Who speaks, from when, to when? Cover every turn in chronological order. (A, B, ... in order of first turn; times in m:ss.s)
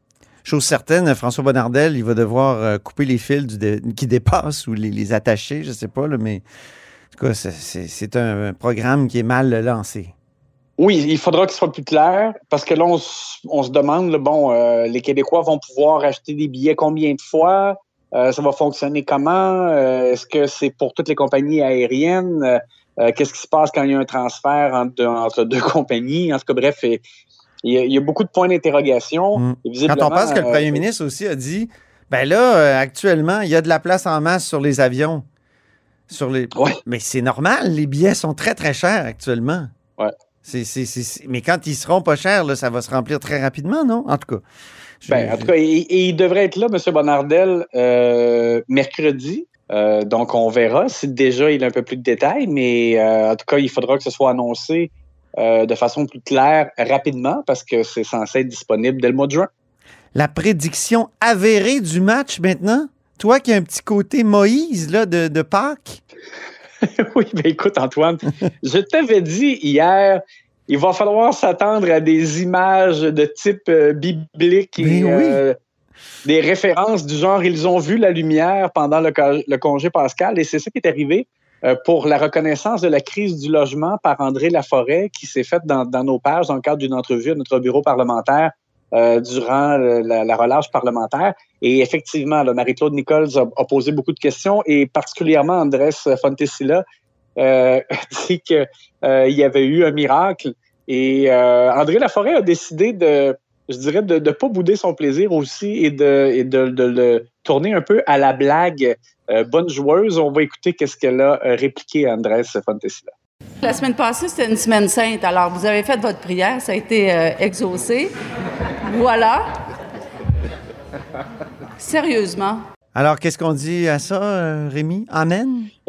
0:00.4-0:06.4 A
0:07.1-0:10.1 A
0:10.8-0:27.0 B
0:27.6-0:30.8 B
0:29.3-0:35.2 A
0:36.1-0:39.7 A
0:40.4-0:44.4 A
0:45.0-0:45.5 A
0:45.1-0:59.5 B
1:00.1-1:06.0 A
1:06.8-1:15.5 B
1:14.8-1:15.4 A
1:16.2-1:36.8 B
1:37.4-1:53.1 B
1:53.6-1:58.1 C
1:58.8-1:59.5 C
2:01.8-2:02.6 C
2:02.9-2:05.7 A